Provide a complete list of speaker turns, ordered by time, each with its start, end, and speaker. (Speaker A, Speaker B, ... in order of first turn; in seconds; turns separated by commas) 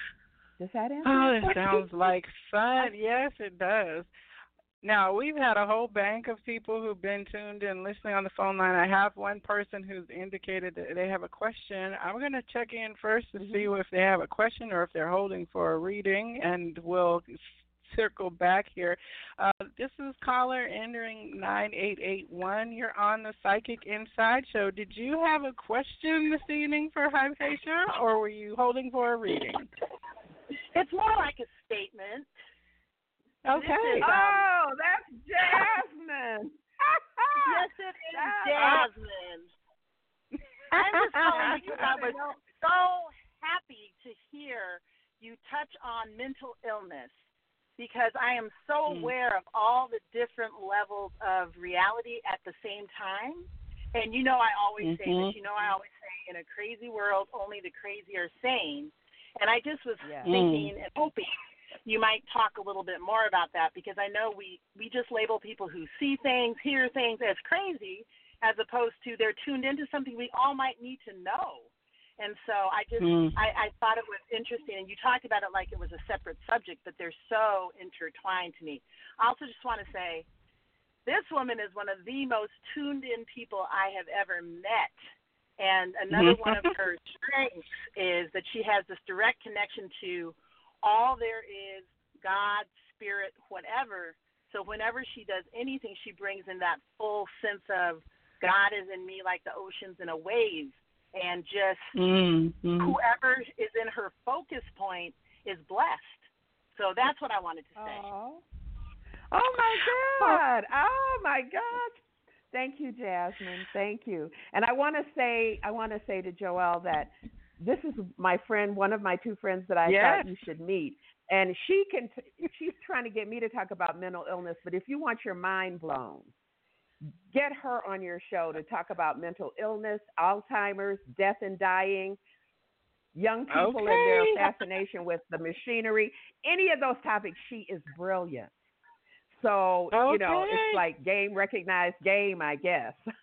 Speaker A: 0.6-1.9, Speaker B: 1.0-4.1, Speaker B: 4.8-29.7, Speaker A: 13.4-13.7, Speaker C: 30.7-32.3, Speaker B: 33.4-34.1, Speaker C: 33.5-34.5, Speaker A: 34.0-38.9, Speaker C: 37.4-39.5, Speaker B: 38.6-38.8, Speaker C: 40.7-47.1, Speaker B: 40.7-42.1, Speaker C: 47.8-61.3, Speaker B: 54.8-55.3, Speaker A: 60.0-60.3, Speaker B: 60.2-60.7, Speaker C: 61.8-80.3, Speaker B: 73.0-73.3, Speaker C: 81.0-84.9, Speaker C: 85.6-101.9, Speaker B: 86.1-86.7, Speaker B: 101.9-103.0, Speaker C: 102.8-106.2, Speaker C: 106.7-108.1, Speaker A: 107.8-108.4, Speaker A: 109.3-112.0, Speaker B: 109.8-110.4, Speaker A: 112.5-126.3, Speaker B: 119.8-120.3, Speaker A: 127.0-132.2, Speaker A: 133.1-138.5, Speaker B: 133.5-134.4, Speaker A: 139.3-143.1, Speaker B: 139.9-140.8